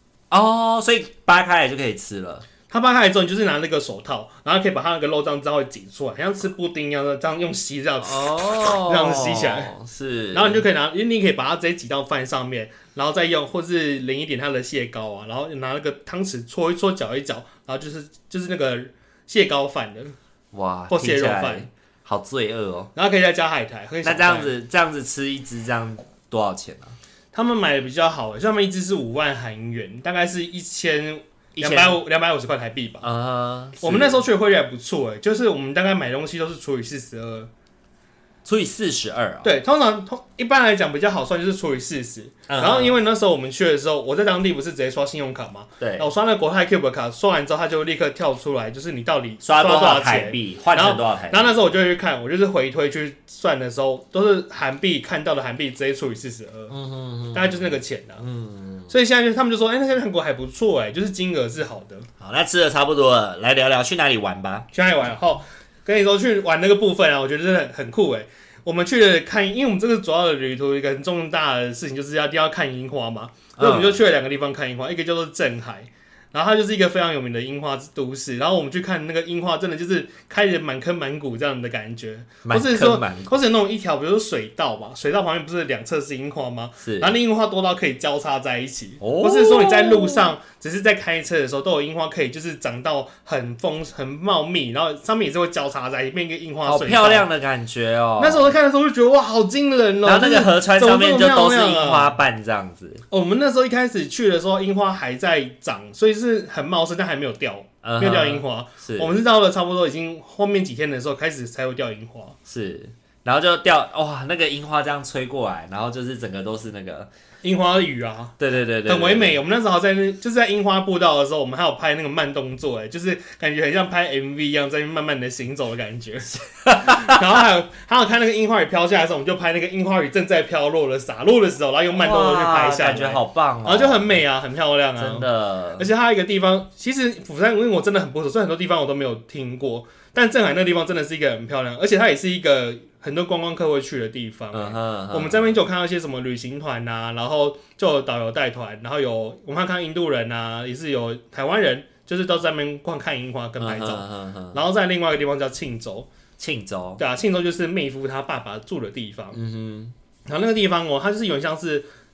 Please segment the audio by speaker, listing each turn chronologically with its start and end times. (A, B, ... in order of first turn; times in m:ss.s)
0:00.3-0:02.4 A
0:02.7-0:09.7 B
0:08.0-0:10.6 A
0:10.3-0:20.1 B
0:20.5-0:22.9 A
0:20.9-0:21.7 B
0:22.9-0:24.5 B
0:24.0-0:27.0 A
0:27.3-0:33.1 B
0:31.6-0:32.0 A
0:33.0-0:34.2 A
0:33.8-0:37.5 B
0:38.4-0:39.5 A
0:39.4-0:56.7 B
0:42.5-0:43.0 A
0:45.8-0:46.1 A
0:49.4-0:51.6 A
0:56.7-0:58.9 A
0:57.3-0:58.2 B
0:58.9-1:02.1 B
1:02.2-1:04.7 A
1:04.7-1:37.3 B
1:13.6-1:14.0 A
1:22.4-1:23.3 A
1:26.8-1:27.1 A
1:29.0-1:30.3 A
1:36.6-1:38.5 A
1:38.2-1:42.2 B
1:40.0-1:43.0 A
1:43.1-1:52.4 B
1:47.8-1:49.2 A
1:52.5-1:57.1 A
1:57.4-2:36.1 B
1:58.4-1:59.4 A
2:06.6-2:07.2 A
2:11.9-2:14.2 A
2:15.0-2:15.9 A
2:24.5-2:25.6 A
2:33.6-2:34.6 A
2:36.4-2:37.0 A
2:37.0-2:39.4 B
2:39.3-2:39.9 A
2:40.3-2:41.9 B